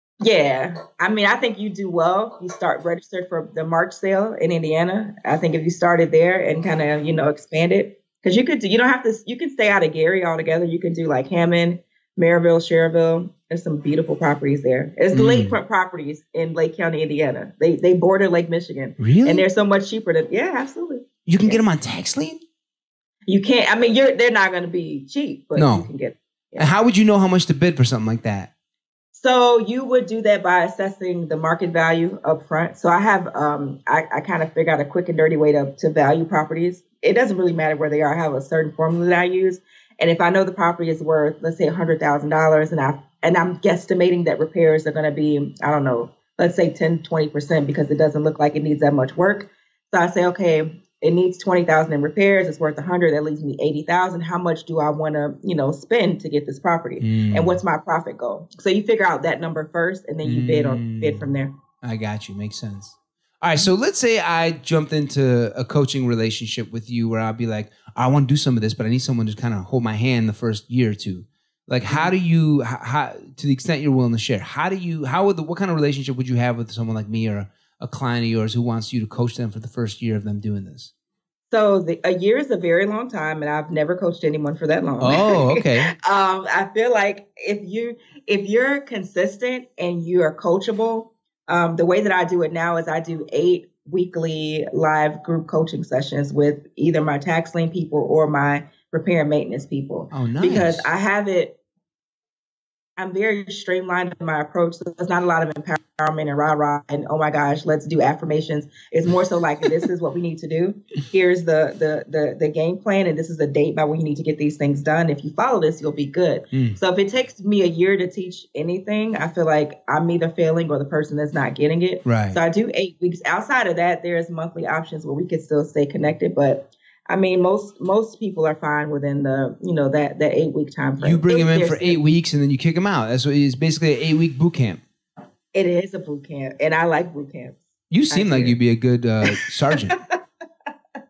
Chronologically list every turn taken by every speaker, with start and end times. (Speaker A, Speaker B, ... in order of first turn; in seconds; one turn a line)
Speaker A: 0.2-21.6
Speaker B: 15.1-15.6
Speaker B: 19.0-19.4
Speaker B: 21.3-22.4
Speaker A: 23.3-26.7
Speaker B: 25.5-25.9
Speaker B: 26.6-28.5
Speaker A: 29.1-61.5
Speaker B: 57.0-57.6
Speaker B: 60.2-80.9
Speaker A: 71.9-72.1
Speaker A: 81.5-101.6
Speaker B: 85.0-85.9
Speaker B: 100.1-100.9
Speaker A: 103.0-132.0
Speaker B: 116.5-116.8
Speaker B: 122.0-122.4
Speaker B: 131.0-134.8
Speaker A: 135.5-138.6
Speaker B: 137.9-140.0
Speaker A: 139.2-140.2